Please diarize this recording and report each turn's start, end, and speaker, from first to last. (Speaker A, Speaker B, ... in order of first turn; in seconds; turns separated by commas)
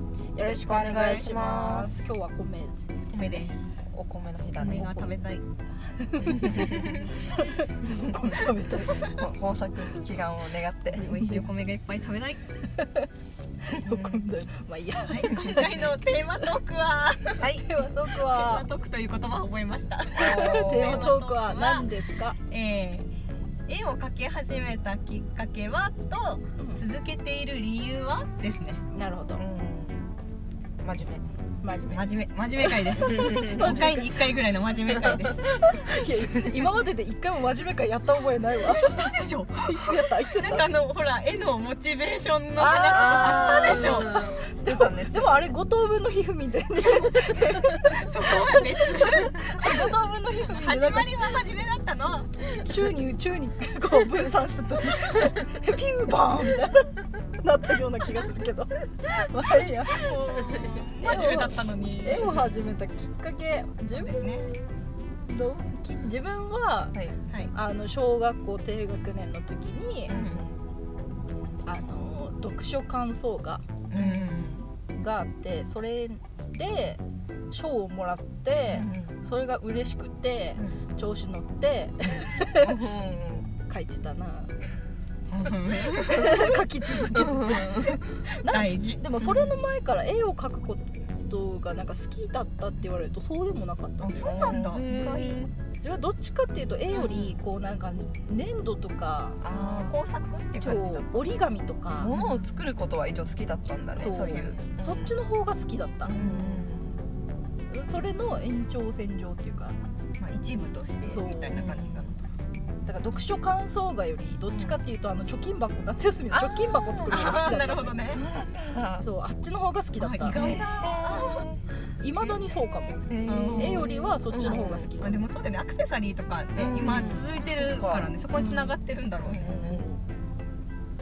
Speaker A: 0.3-3.4, Speaker B: 0.4-2.1, Speaker C: 0.8-1.3, Speaker C: 3.1-3.6, Speaker B: 3.2-5.1, Speaker C: 4.6-5.4, Speaker A: 5.9-9.1, Speaker B: 6.2-7.0, Speaker C: 6.7-7.1, Speaker B: 9.1-11.4, Speaker C: 10.9-12.4, Speaker A: 12.7-13.1, Speaker B: 13.8-14.2, Speaker A: 13.8-16.4, Speaker C: 15.0-21.9, Speaker B: 17.4-17.6, Speaker A: 17.6-18.7, Speaker B: 20.1-21.1, Speaker A: 20.1-22.4, Speaker C: 22.5-23.1, Speaker C: 23.7-28.8, Speaker A: 26.6-26.8, Speaker A: 28.9-29.4, Speaker B: 29.4-30.1, Speaker B: 30.8-31.2, Speaker A: 31.6-32.1, Speaker C: 31.9-35.5, Speaker B: 33.0-33.9, Speaker A: 33.4-34.2, Speaker A: 35.6-40.7, Speaker C: 38.5-44.2, Speaker A: 42.6-51.3, Speaker B: 42.9-45.4, Speaker C: 47.9-52.7, Speaker A: 52.4-64.2, Speaker C: 59.9-62.4, Speaker B: 62.2-62.5, Speaker C: 63.9-64.5, Speaker A: 65.3-67.0, Speaker A: 67.5-70.2, Speaker B: 70.1-70.6, Speaker C: 70.1-70.5, Speaker A: 71.6-73.7, Speaker B: 73.9-74.6, Speaker C: 73.9-74.6, Speaker A: 74.9-82.7, Speaker B: 78.7-79.2, Speaker B: 82.6-83.5, Speaker A: 83.7-84.5, Speaker C: 85.3-86.6, Speaker A: 85.9-94.6, Speaker B: 87.1-88.0, Speaker C: 88.4-89.0, Speaker B: 89.2-89.6, Speaker C: 94.0-95.5, Speaker B: 94.2-95.5, Speaker A: 95.8-99.4, Speaker C: 97.0-97.3, Speaker B: 99.4-100.0, Speaker C: 99.4-100.9, Speaker B: 100.6-101.2, Speaker A: 100.6-102.1, Speaker B: 102.0-105.2, Speaker C: 102.1-102.5, Speaker A: 104.0-106.2, Speaker C: 104.2-104.6, Speaker B: 106.0-107.0, Speaker C: 106.1-106.6, Speaker A: 107.7-109.8, Speaker C: 110.2-112.2, Speaker A: 111.1-111.7, Speaker B: 111.5-112.1, Speaker A: 112.8-118.0, Speaker B: 114.5-114.8, Speaker B: 116.3-117.4, Speaker C: 117.0-118.2, Speaker B: 118.0-119.0, Speaker A: 119.0-120.4, Speaker C: 120.0-121.5, Speaker B: 120.3-121.6, Speaker A: 122.0-125.2, Speaker B: 123.1-124.9, Speaker C: 123.2-129.6, Speaker B: 126.5-128.1, Speaker A: 128.3-128.8, Speaker B: 129.2-129.9, Speaker A: 129.4-130.0